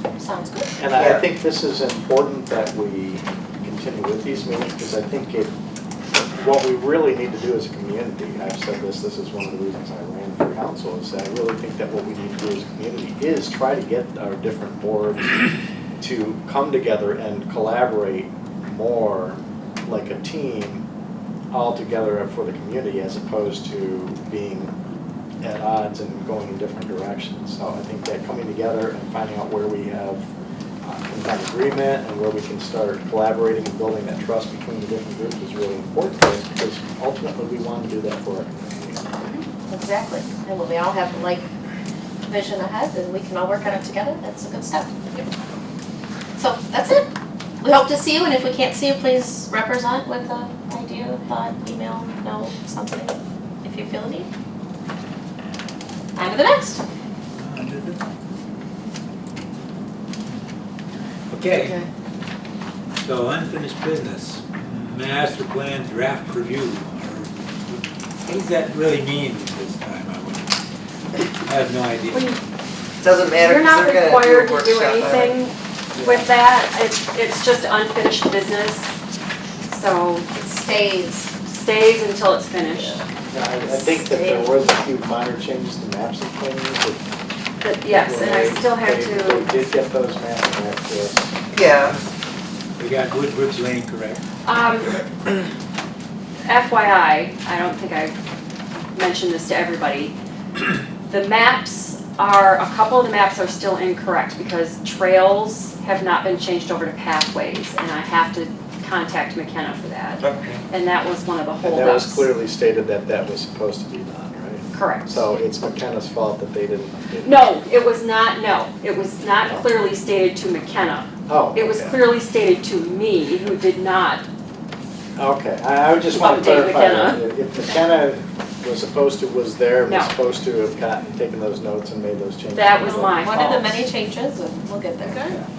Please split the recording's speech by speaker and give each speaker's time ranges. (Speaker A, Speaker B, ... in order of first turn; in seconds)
Speaker A: 0.2-0.8, 39.7-41.5, 42.2-45.2, 46.4-54.3, 56.1-56.8, 80.3-81.3, 83.6-84.7, 132.8-135.4
Speaker B: 0.8-5.5, 6.1-20.8, 21.5-24.7, 25.4-30.3, 30.8-39.1, 83.3-87.0, 87.8-91.3, 111.6-117.4, 121.3-122.0, 125.2-133.2
Speaker C: 0.9-1.3, 61.5-61.9, 73.0-75.4, 76.0-76.3, 91.5-92.0, 110.2-110.6
Speaker D: 57.4-58.0, 61.3-61.8, 63.0-70.6, 71.5-72.4, 91.7-92.1, 92.8-94.2
Speaker E: 72.1-72.4, 73.3-78.9, 79.7-80.3, 81.4-83.0, 87.6-89.6, 94.5-95.0, 96.5-98.1, 98.9-100.1, 101.1-112.3, 114.7-115.2, 117.2-124.2, 126.1-127.3, 129.8-130.2, 132.5-133.8